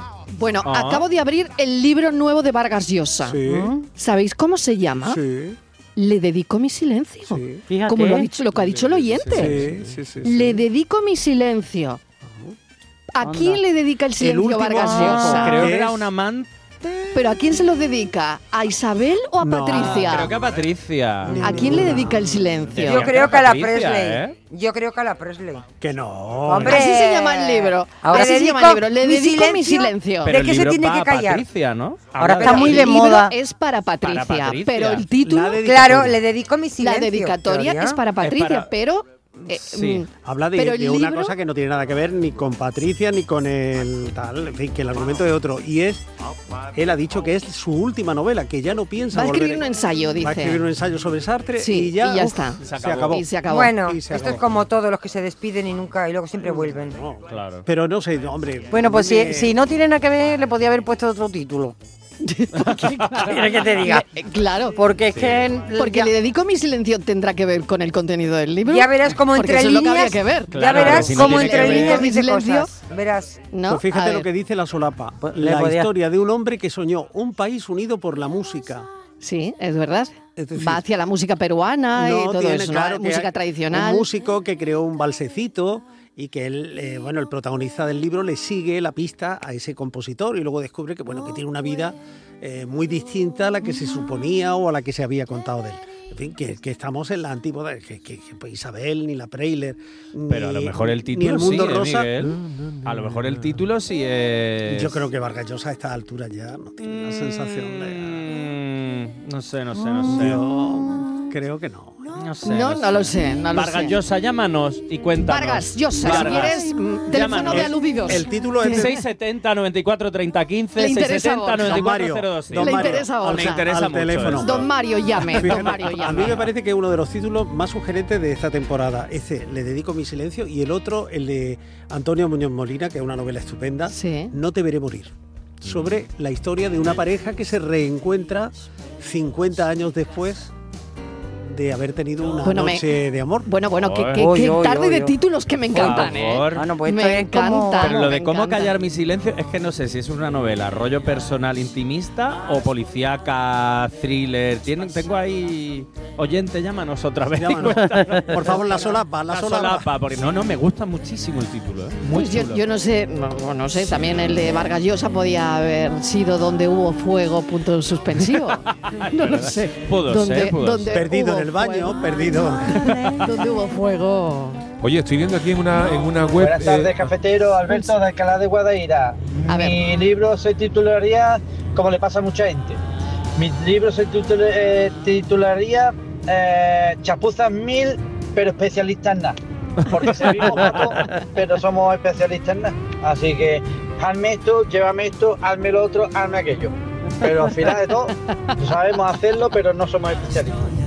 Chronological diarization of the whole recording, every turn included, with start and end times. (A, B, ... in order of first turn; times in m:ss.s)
0:00.3-0:03.4 A
0:00.6-0:01.0 B
0:03.2-0:03.7 C
0:03.4-0:03.8 D
0:04.0-0:05.2 A
0:05.0-0:05.6 C
0:06.0-0:09.6 A
0:07.3-0:07.6 C
0:07.7-0:08.3 D
0:09.1-0:09.9 B
0:09.3-0:10.6 C
0:10.2-0:12.0 A
0:12.2-0:12.5 C
0:13.1-0:15.7 A
0:13.2-0:13.6 D
0:14.2-0:16.0 C
0:14.8-0:15.2 D
0:14.9-0:16.5 B
0:17.1-0:20.3 A
0:19.4-0:20.4 C
0:19.7-0:22.0 B
0:21.2-0:22.2 C
0:21.4-0:23.1 A
0:22.7-0:24.4 B
0:22.8-0:25.6 E
0:25.8-0:26.8 C
0:26.4-0:31.4 E
0:26.6-0:30.4 A
0:30.2-0:32.8 B
0:32.2-0:33.3 D
0:32.3-0:33.0 E
0:32.4-0:35.6 A
0:34.0-0:35.0 B
0:35.2-0:36.2 C
0:35.6-0:38.0 E
0:36.8-0:41.4 A
0:38.2-0:38.7 B
0:39.5-0:40.0 B
0:40.2-0:46.0 C
0:46.7-0:49.6 C
0:49.1-0:50.6 A
0:50.2-0:54.5 C
0:51.6-0:53.7 A
0:52.6-0:53.2 B
0:53.5-0:57.0 E
0:56.4-0:59.5 C
0:57.3-0:57.6 B
0:58.7-1:01.7 D
1:02.2-1:04.8 A
1:02.5-1:03.5 B
1:03.2-1:04.0 D
1:04.8-1:06.1 D
1:05.1-1:05.4 B
1:05.8-1:12.7 A
1:08.6-1:13.5 E
1:10.5-1:12.0 B
1:13.5-1:14.3 A
1:13.7-1:18.9 C
1:15.2-1:15.9 D
1:19.2-1:24.1 A
1:20.4-1:20.8 C
1:21.9-1:42.2 C
1:40.3-1:45.0 B
1:44.7-1:48.2 C
1:47.7-1:50.4 B
1:50.1-1:52.0 C
1:52.2-1:57.7 B
1:52.4-1:54.0 A
1:55.2-1:58.9 A
1:57.5-1:58.9 C
1:58.6-2:04.5 B
2:00.8-2:01.9 A
2:01.6-2:04.7 C
2:02.5-2:03.7 A
2:04.4-2:06.4 A
2:05.2-2:15.1 C
2:13.9-2:14.3 A
2:15.6-2:20.5 C
2:21.4-2:23.5 C
2:22.4-2:22.8 A
2:23.4-2:28.7 A
2:23.8-2:24.3 B
2:24.2-2:25.1 D
2:25.7-2:26.7 B
2:26.5-2:28.0 D
2:27.8-2:42.6 B
2:37.3-2:39.9 C
2:37.9-2:38.2 D
2:42.1-2:54.6 A
2:48.2-2:51.0 B
2:50.9-2:52.9 C
2:54.8-2:57.1 F
2:56.4-3:02.8 G
2:59.5-2:59.8 A
3:03.4-3:20.7 G